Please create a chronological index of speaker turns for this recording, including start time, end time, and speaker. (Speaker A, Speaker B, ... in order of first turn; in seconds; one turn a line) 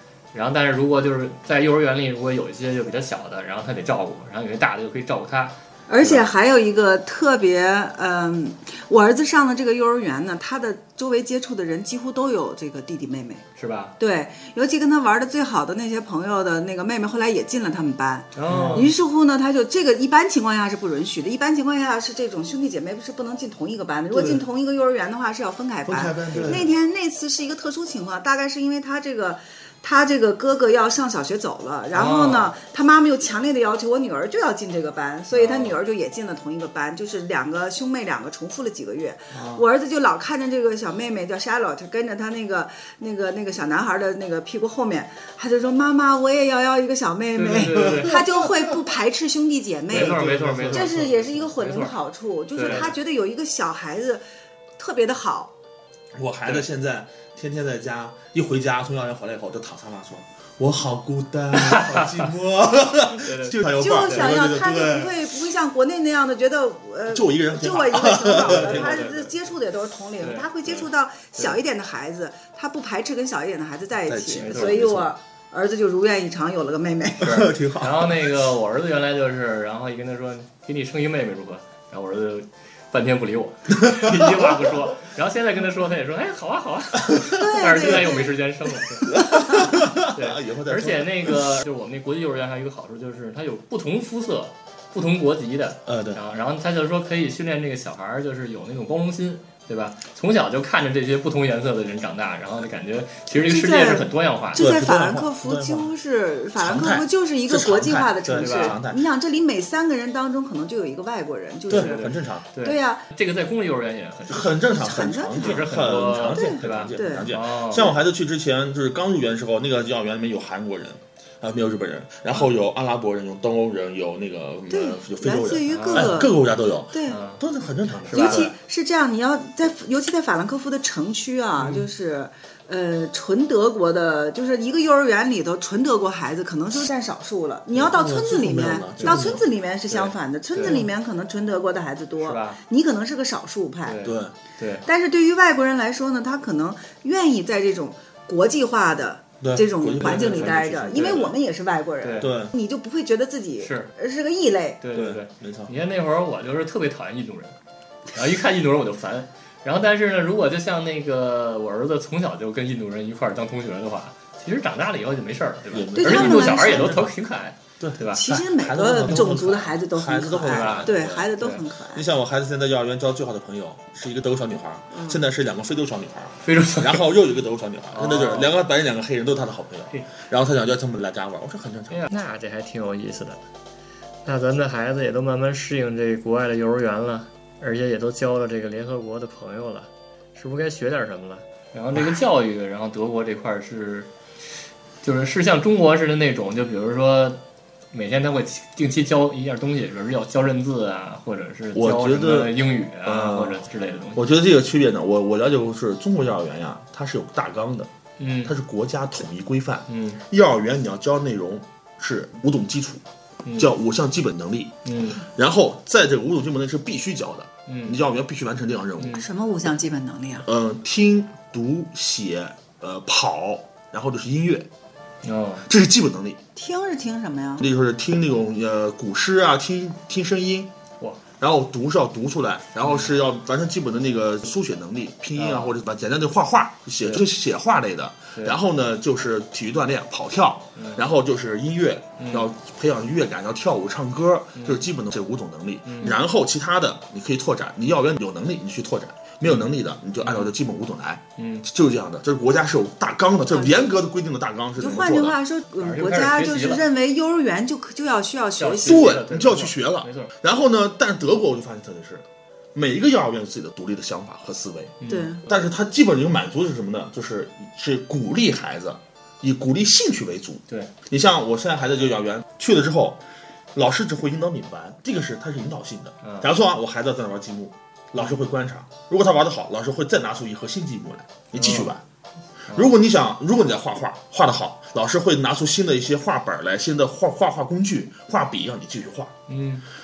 Speaker A: 0.3-6.3
Speaker B: 5.9-13.4
Speaker A: 13.6-13.9
Speaker B: 14.0-54.2
Speaker A: 18.3-18.9
Speaker C: 18.5-18.9
Speaker C: 24.1-24.4
Speaker C: 25.9-26.7
Speaker A: 26.3-26.6
Speaker A: 31.9-32.5
Speaker A: 35.3-35.8
Speaker C: 39.3-39.6
Speaker A: 47.4-48.2
Speaker C: 47.7-48.8
Speaker A: 49.9-51.9
Speaker C: 49.9-51.0
Speaker A: 52.5-52.9
Speaker C: 52.6-52.9
Speaker B: 54.8-55.5
Speaker C: 56.1-65.1
Speaker A: 61.5-62.2
Speaker A: 63.1-63.6
Speaker B: 63.8-77.5
Speaker A: 64.1-64.3
Speaker C: 67.1-69.1
Speaker A: 68.3-69.3
Speaker A: 70.2-71.6
Speaker C: 74.0-75.1
Speaker A: 74.4-74.8
Speaker C: 77.2-78.2
Speaker A: 77.2-89.2
Speaker C: 83.8-84.8
Speaker B: 87.3-88.3
Speaker C: 87.8-88.0
Speaker C: 89.1-91.5
Speaker B: 89.1-89.7
Speaker A: 90.0-104.7
Speaker C: 95.9-96.2
Speaker B: 103.4-112.0
Speaker C: 104.5-105.9
Speaker C: 106.6-109.0
Speaker A: 108.3-108.8
Speaker C: 111.7-112.4
Speaker A: 111.7-114.8
Speaker B: 112.6-113.0
Speaker C: 114.3-128.5
Speaker B: 114.7-115.7
Speaker A: 115.3-117.9
Speaker B: 116.3-117.3
Speaker B: 124.7-126.3
Speaker A: 125.7-126.2
Speaker B: 126.9-127.2
Speaker A: 127.1-127.4
Speaker A: 128.0-128.5
Speaker B: 128.1-144.0
Speaker A: 131.6-131.8
Speaker C: 137.7-139.4
Speaker A: 139.0-139.3
Speaker A: 139.9-140.9
Speaker A: 142.2-142.6
Speaker A: 143.8-144.8
Speaker C: 144.0-144.3
Speaker B: 144.8-154.8
Speaker C: 149.4-151.3
Speaker A: 150.0-151.3
Speaker A: 152.0-152.3
Speaker C: 152.2-152.5
Speaker A: 153.6-153.9
Speaker A: 154.8-157.6
Speaker C: 154.9-155.7
Speaker A: 158.1-168.3
Speaker C: 165.7-167.1
Speaker B: 165.9-167.0
Speaker C: 167.8-171.3
Speaker B: 168.1-172.0
Speaker A: 170.4-171.6
Speaker C: 171.9-182.0
Speaker B: 174.9-175.2
Speaker A: 176.4-177.0
Speaker A: 177.9-178.5
Speaker A: 181.9-183.4
Speaker A: 184.2-194.1
Speaker C: 191.9-192.2
Speaker A: 195.0-197.4
Speaker A: 197.9-204.3
Speaker C: 201.7-203.6
Speaker C: 204.1-207.9
Speaker A: 208.2-208.5
Speaker C: 208.4-213.0
Speaker A: 209.9-210.2
Speaker A: 213.4-213.7
Speaker C: 213.6-219.2
Speaker A: 214.8-215.2
Speaker A: 217.7-218.0
Speaker A: 219.0-219.2
Speaker B: 219.2-220.5
Speaker C: 220.4-224.7
Speaker A: 225.2-225.6
Speaker C: 225.7-226.4
Speaker B: 226.6-227.7
Speaker C: 227.6-230.7
Speaker C: 231.4-255.4
Speaker A: 232.8-233.1
Speaker A: 235.3-235.7
Speaker A: 240.8-241.0
Speaker A: 242.2-242.5
Speaker A: 244.6-244.8
Speaker A: 245.9-246.2
Speaker A: 250.2-250.5
Speaker A: 251.4-251.6
Speaker B: 253.5-253.9
Speaker B: 254.8-259.1
Speaker A: 255.8-256.8
Speaker A: 258.6-260.3
Speaker C: 258.8-273.2
Speaker A: 265.0-265.3
Speaker B: 265.1-265.4
Speaker C: 273.7-282.0
Speaker A: 276.2-276.5
Speaker A: 281.6-281.9
Speaker C: 282.7-289.3
Speaker A: 289.5-289.8